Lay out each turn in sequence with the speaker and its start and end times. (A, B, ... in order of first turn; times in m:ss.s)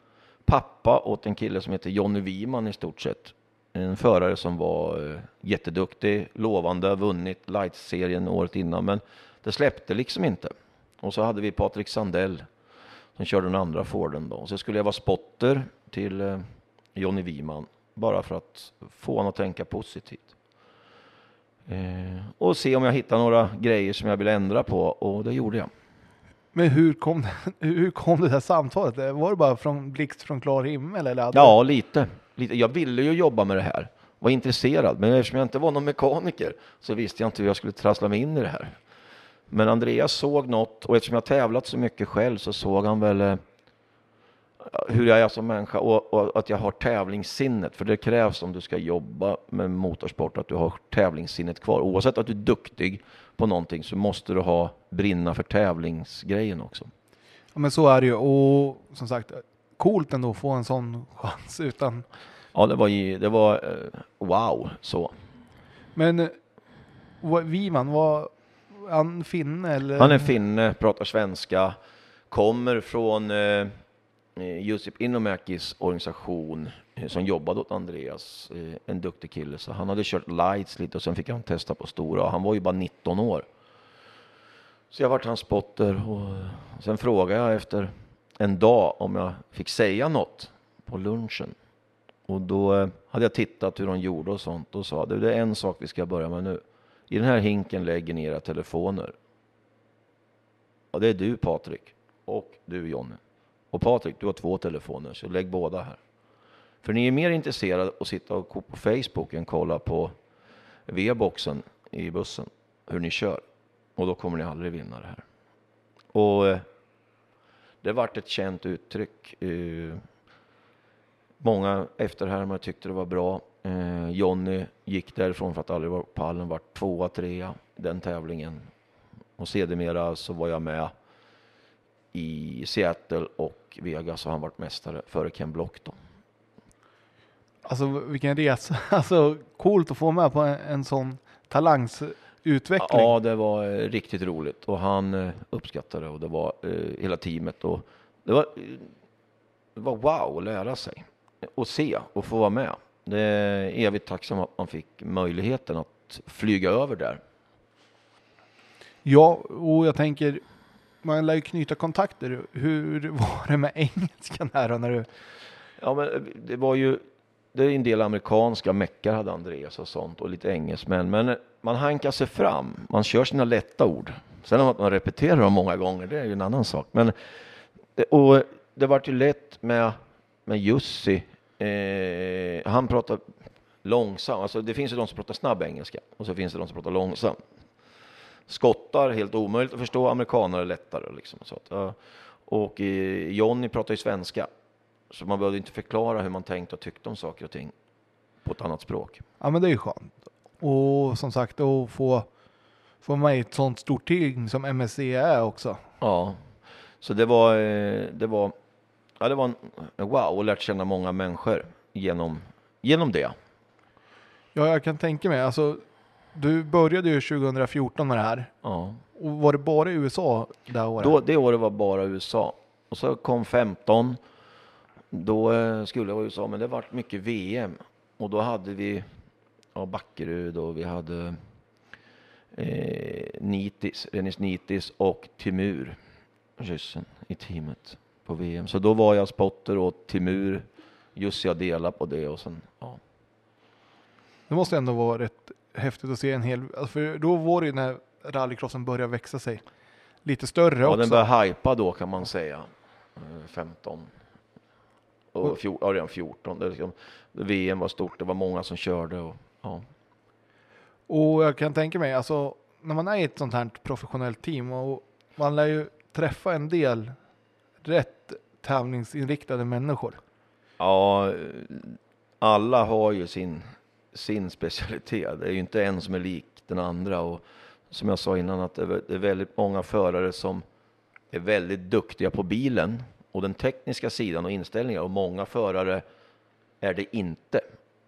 0:00.4-0:12.5 A
0:13.2-0:20.3 A
0:21.7-0:25.7 A
0:26.5-0:31.6 B
0:31.3-0:38.8 A
0:39.5-0:43.4 A
0:44.6-0:56.9 A
0:57.5-1:02.0 B
1:02.5-1:05.1 A
1:06.0-1:06.4 B
1:07.2-1:10.3 B
1:10.0-1:11.8 A
1:12.3-1:13.8 A
1:14.4-1:23.4 A
1:24.9-1:31.5 A
1:32.3-1:39.1 A
1:40.9-1:43.2 A
1:43.7-1:46.0 A
1:46.8-1:50.2 A
1:50.9-1:53.4 A
1:54.0-1:55.2 A
1:56.1-1:56.6 A
1:57.8-2:00.0 A
2:01.4-2:08.7 A
2:09.4-2:10.9 A
2:12.1-2:16.0 A
2:17.6-2:23.1 B
2:22.8-2:28.9 A
2:29.8-2:37.2 A
2:39.0-2:40.4 B
2:41.0-2:45.1 B
2:45.8-2:47.0 A
2:47.5-2:57.1 A
2:58.0-3:03.2 A
3:03.8-3:07.4 A
3:08.5-3:14.5 A
3:15.1-3:17.7 A
3:18.4-3:19.2 A
3:19.4-3:22.3 B
3:23.0-3:25.8 B
3:26.0-3:26.4 A
3:27.0-3:28.5 A
3:29.2-3:33.4 A
3:34.5-3:38.5 B
3:38.6-3:39.0 A
3:39.1-3:41.2 B
3:41.0-3:44.2 A
3:45.1-3:49.1 A
3:49.7-3:51.4 A
3:52.5-3:56.0 A
3:56.6-4:03.0 A
4:04.5-4:09.6 B
4:10.2-4:11.2 B
4:10.8-4:14.1 A
4:15.3-4:19.9 A
4:21.1-4:27.1 B
4:27.8-4:30.2 B
4:30.8-4:40.6 A
4:41.3-4:46.0 A
4:46.8-4:47.6 A